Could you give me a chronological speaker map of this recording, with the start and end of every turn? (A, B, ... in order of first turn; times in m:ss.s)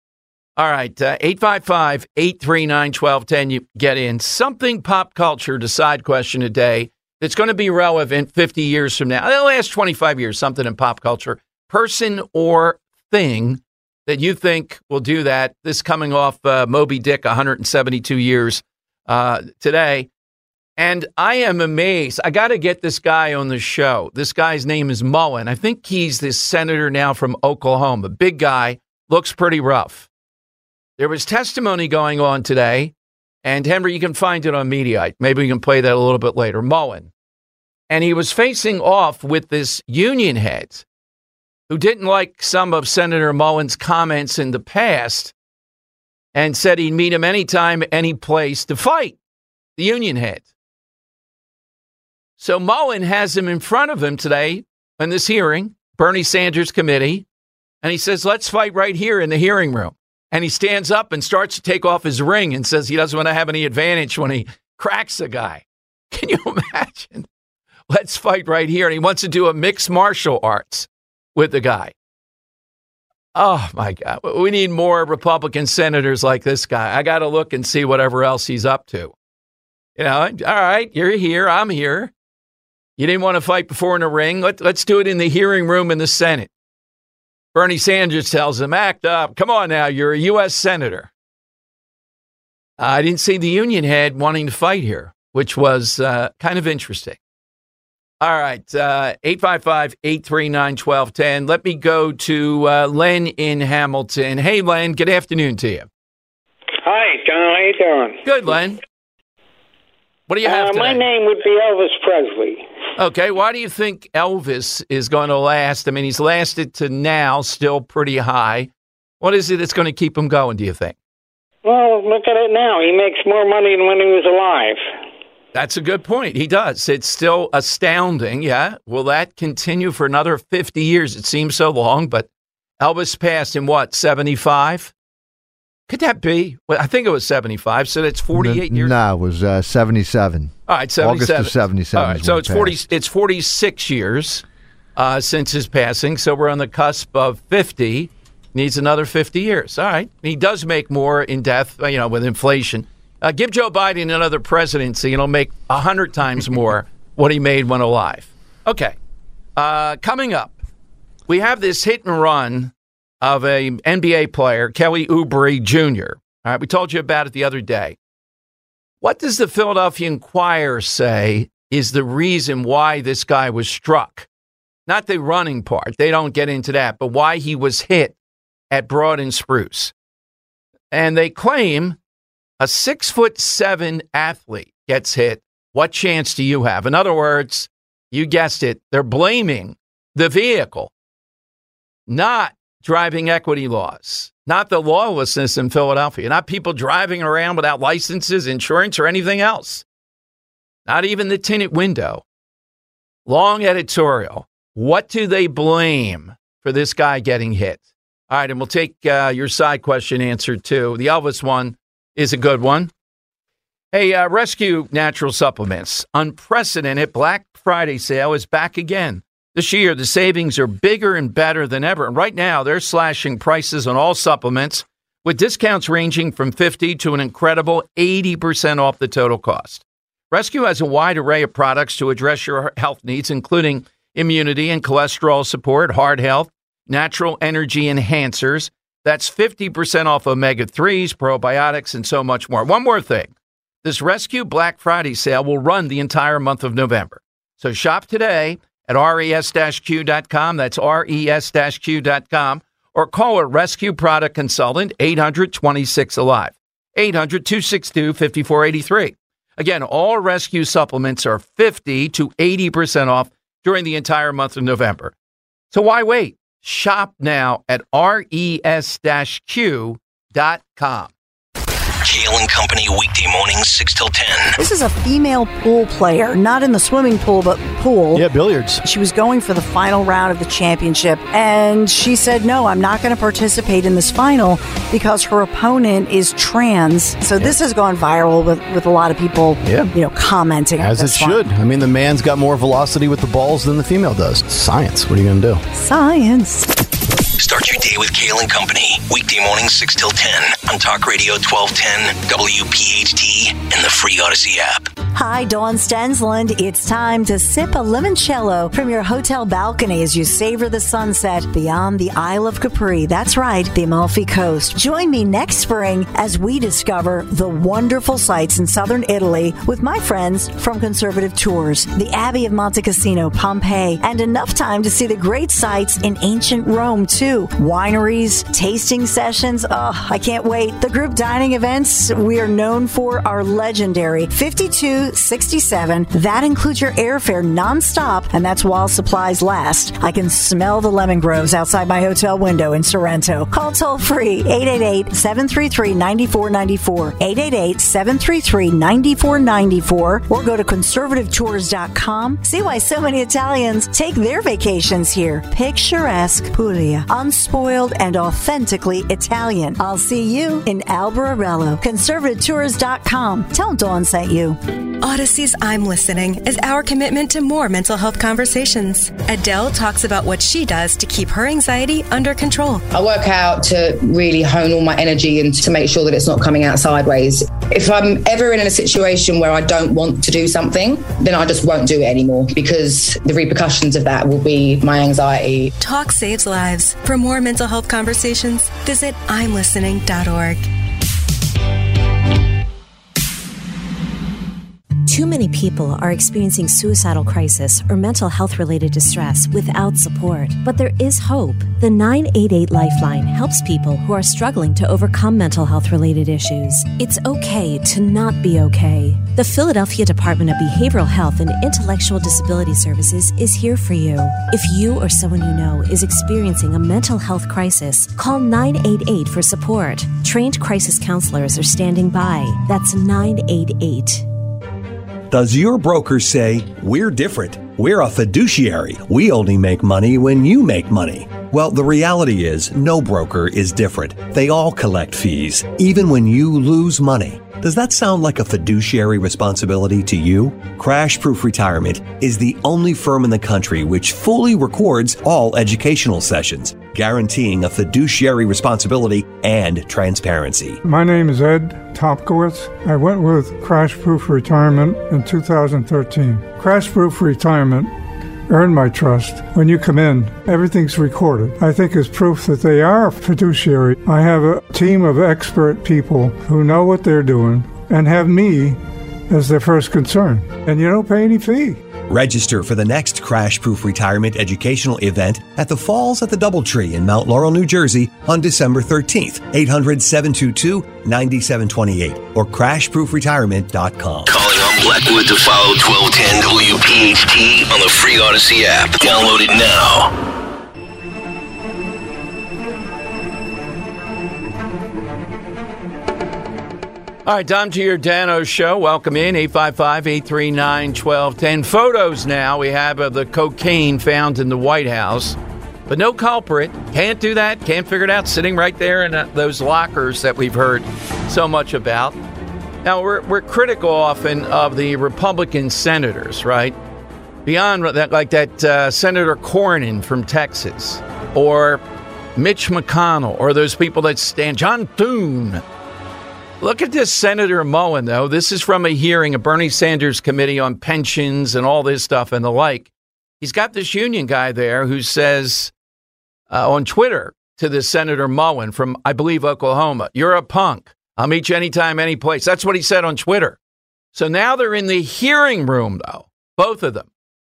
0:00.6-0:20.1 A
0:20.8-0:30.1 A
0:31.0-0:32.9 A
0:33.4-0:37.1 A
0:37.9-0:40.8 A
0:41.7-0:45.3 A
0:46.4-0:49.2 A
0:49.8-0:50.5 A
0:52.4-0:57.2 A
0:57.8-1:07.3 A
1:07.9-1:11.9 A
1:13.4-1:19.1 A
1:20.0-1:22.1 A
1:23.0-1:26.5 A
1:27.5-1:31.1 A
1:32.8-1:37.2 A
1:38.2-1:45.9 A
1:46.8-1:48.2 B
1:48.2-1:48.8 A
1:50.3-1:51.1 A
1:50.4-1:52.6 B
1:53.0-1:58.7 A
1:59.2-2:01.0 A
2:01.6-2:04.9 B
2:05.5-2:12.3 A
2:12.8-2:14.9 A
2:15.9-2:19.0 A
2:18.3-2:22.8 C
2:20.7-2:24.4 A
2:25.0-2:39.0 A
2:39.6-2:40.6 A
2:41.3-2:48.0 A
2:49.0-2:54.3 A
2:54.9-2:58.2 A
2:58.7-2:59.9 A
3:00.9-3:02.0 A
3:02.6-3:10.9 A
3:12.1-3:19.8 A
3:20.9-3:22.2 A
3:23.3-3:32.9 A
3:33.9-4:03.3 A
4:03.8-4:25.1 A
4:25.7-4:31.1 A
4:32.0-4:34.6 D
4:34.6-4:38.2 E
4:38.1-4:38.8 F
4:38.8-4:51.4 E
4:49.6-4:49.9 F
4:50.8-4:55.6 F
4:55.7-4:56.7 E
4:57.4-5:04.9 D
5:05.2-6:04.6 E
6:05.0-6:12.8 G
6:12.9-6:25.7 H
6:25.8-6:30.6 G
6:35.1-7:04.3 I
7:05.3-7:30.8 J
7:30.8-7:37.9 K
7:38.5-7:51.8 K
7:52.1-8:04.3 J
8:04.3-8:10.1 D
8:17.3-8:32.2 A
8:32.8-8:36.8 A
8:37.4-8:41.8 A
8:42.4-8:45.6 A
8:46.6-8:55.7 A
8:56.5-9:03.6 A
9:04.1-9:07.1 A